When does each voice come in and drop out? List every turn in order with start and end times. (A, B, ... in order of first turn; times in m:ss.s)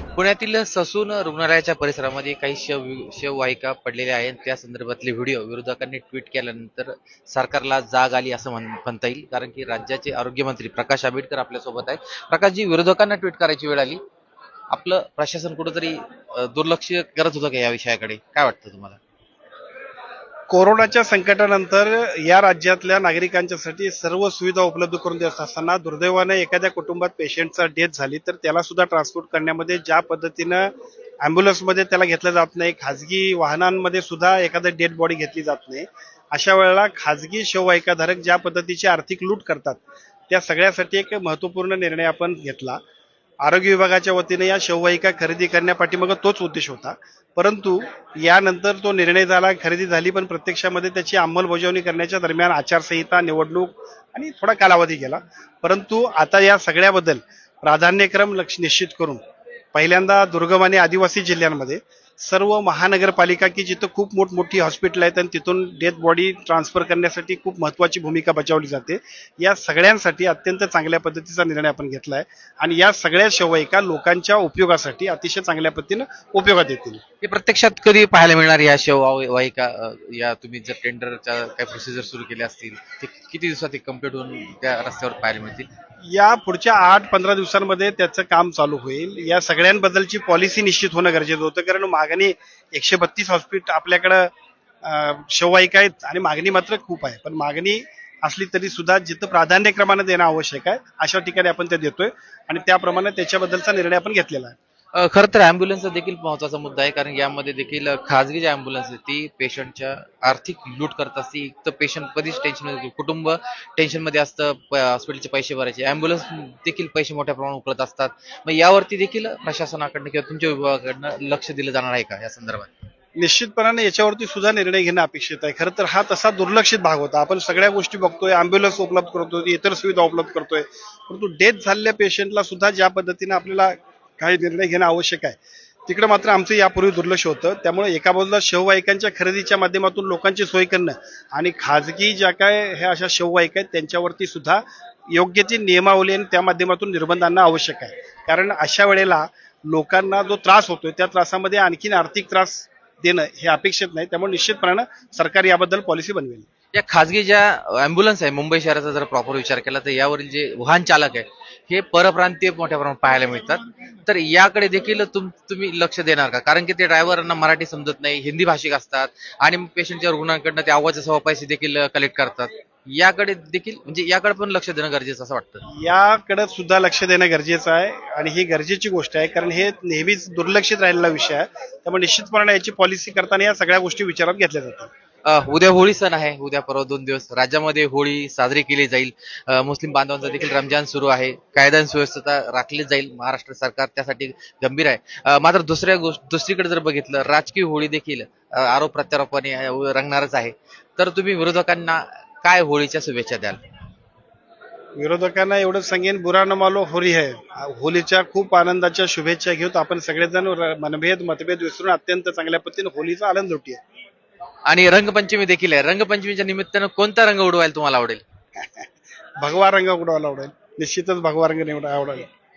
0:00.2-0:14.0 A
0:14.7-0:19.0 A
0:20.5-0:42.8 B
0:43.4-0:59.2 B
0:59.7-1:17.0 B
1:17.2-1:25.7 A
1:26.1-1:34.3 B
1:34.8-1:44.6 B
1:44.9-2:02.7 A
2:03.2-2:36.5 B
2:36.7-2:55.6 A
2:55.7-3:04.9 B
3:05.2-3:23.6 A
3:25.0-3:33.8 B
3:34.7-3:38.2 A
3:39.4-3:42.3 B